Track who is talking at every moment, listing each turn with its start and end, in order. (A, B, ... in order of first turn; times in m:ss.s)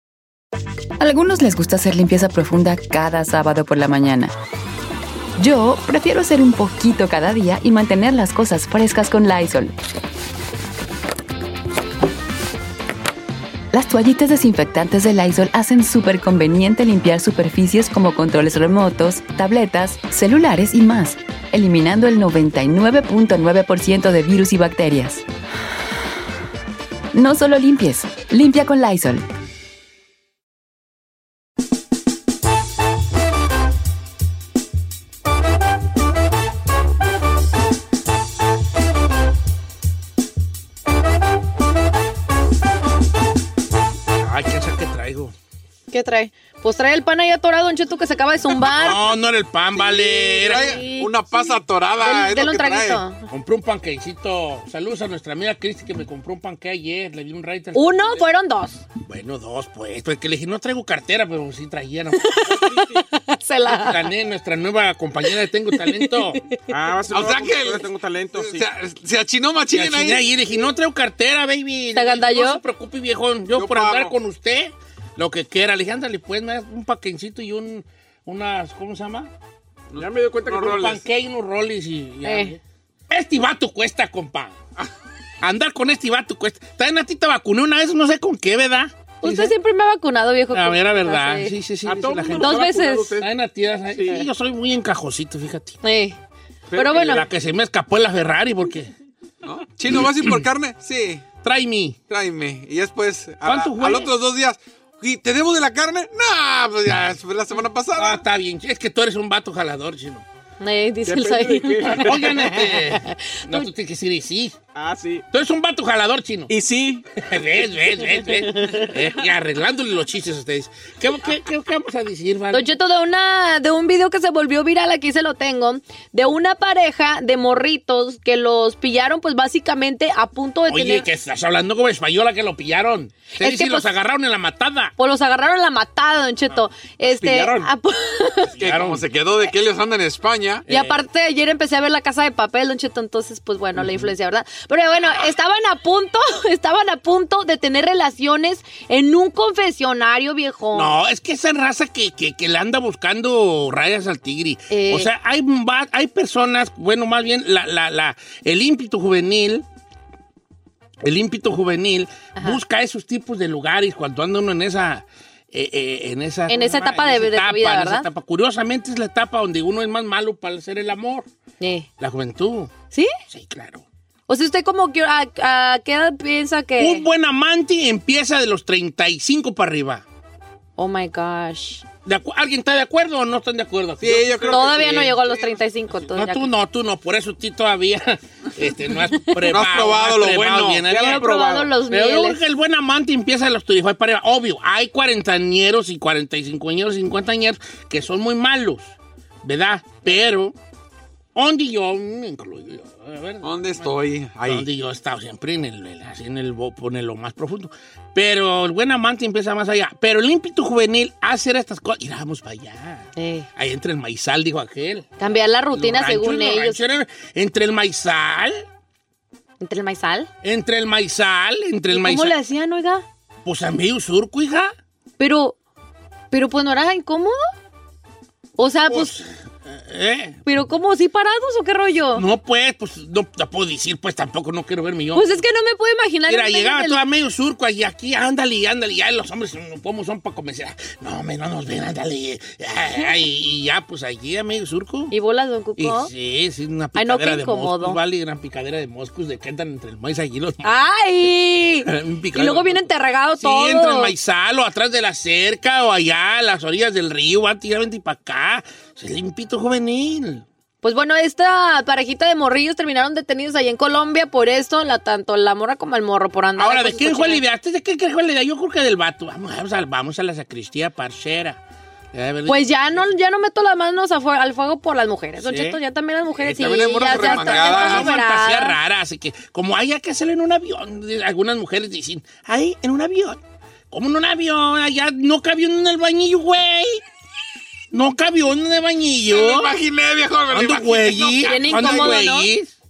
0:01.0-0:04.3 A
0:05.4-0:09.7 A
0:13.7-0:25.2 A
0:27.1-0:29.2 A
0:44.2-0:45.3 B
0:45.9-0:49.1 C
0:48.6-0:50.8 B
0:49.8-0:53.0 D
0:50.4-0:53.3 C
0:53.3-0:58.2 B
0:57.7-0:58.8 C
0:59.0-1:02.5 B
1:02.2-1:04.1 C
1:02.5-1:03.0 E
1:03.7-1:06.5 B
1:05.8-1:06.6 C
1:06.7-1:08.7 E
1:07.1-1:10.2 D
1:09.7-1:19.3 B
1:12.0-1:12.6 C
1:13.5-1:14.1 D
1:19.9-1:21.0 D
1:20.0-1:21.0 E
1:20.5-1:24.6 B
1:22.2-1:22.5 C
1:25.4-1:29.5 B
1:29.2-1:31.5 C
1:30.5-1:32.6 B
1:31.8-1:33.3 E
1:32.4-1:33.2 C
1:33.2-1:35.8 B
1:33.9-1:34.2 E
1:35.8-1:36.2 C
1:36.7-1:37.3 C
1:36.8-1:38.9 B
1:39.4-1:41.3 D
1:41.4-1:42.0 B
1:42.1-1:48.2 D
1:43.4-1:44.1 B
1:48.0-1:50.2 B
1:50.6-1:53.7 C
1:51.0-1:52.5 E
1:51.9-1:54.6 B
1:54.8-1:55.2 E
1:55.3-1:56.5 B
1:56.5-1:57.0 E
1:57.1-2:02.7 B
2:02.5-2:11.1 C
2:10.7-2:15.0 B
2:13.4-2:13.9 C
2:15.0-2:18.5 C
2:17.0-2:17.7 E
2:18.6-2:19.0 B
2:18.6-2:20.6 D
2:20.7-2:21.0 B
2:20.7-2:31.0 C
2:30.7-2:39.6 B
2:34.7-2:35.1 C
2:41.0-2:51.3 B
2:46.5-2:48.1 C
2:51.6-2:51.9 C
2:52.0-2:52.7 B
2:53.3-2:53.8 B
2:54.3-2:57.0 C
2:56.8-3:00.0 B
3:00.8-3:01.8 C
3:02.0-3:05.0 B
3:04.0-3:05.6 D
3:04.5-3:06.5 C
3:06.1-3:18.9 B
3:09.3-3:10.9 D
3:10.8-3:11.7 E
3:11.0-3:12.4 C
3:19.4-3:20.6 B
3:21.4-3:38.6 B
3:23.4-3:24.7 D
3:33.2-3:33.5 C
3:35.2-3:36.8 C
3:39.6-3:40.3 C
3:40.4-3:42.4 B
3:41.9-3:43.0 C
3:43.4-3:44.8 B
3:45.2-3:45.6 C
3:46.3-3:47.4 C
3:48.6-3:49.1 C
3:48.9-3:50.4 B
3:50.4-3:52.2 C
3:52.1-3:55.4 B
3:55.2-3:57.0 C
3:56.3-4:05.1 B
4:05.1-4:06.1 C
4:05.8-4:10.7 B
4:07.0-4:08.0 C
4:10.6-4:14.1 C
4:11.9-4:12.9 B
4:13.4-4:20.4 B
4:20.8-4:27.4 C
4:26.6-4:31.6 B
4:32.1-4:33.1 B
4:32.5-4:38.8 C
4:35.4-4:35.8 B
4:36.4-4:38.2 D
4:37.0-4:43.4 B
4:43.9-4:47.0 B
4:47.9-4:49.7 B
4:49.3-4:52.3 D
4:50.5-4:52.7 B
4:51.4-4:52.5 C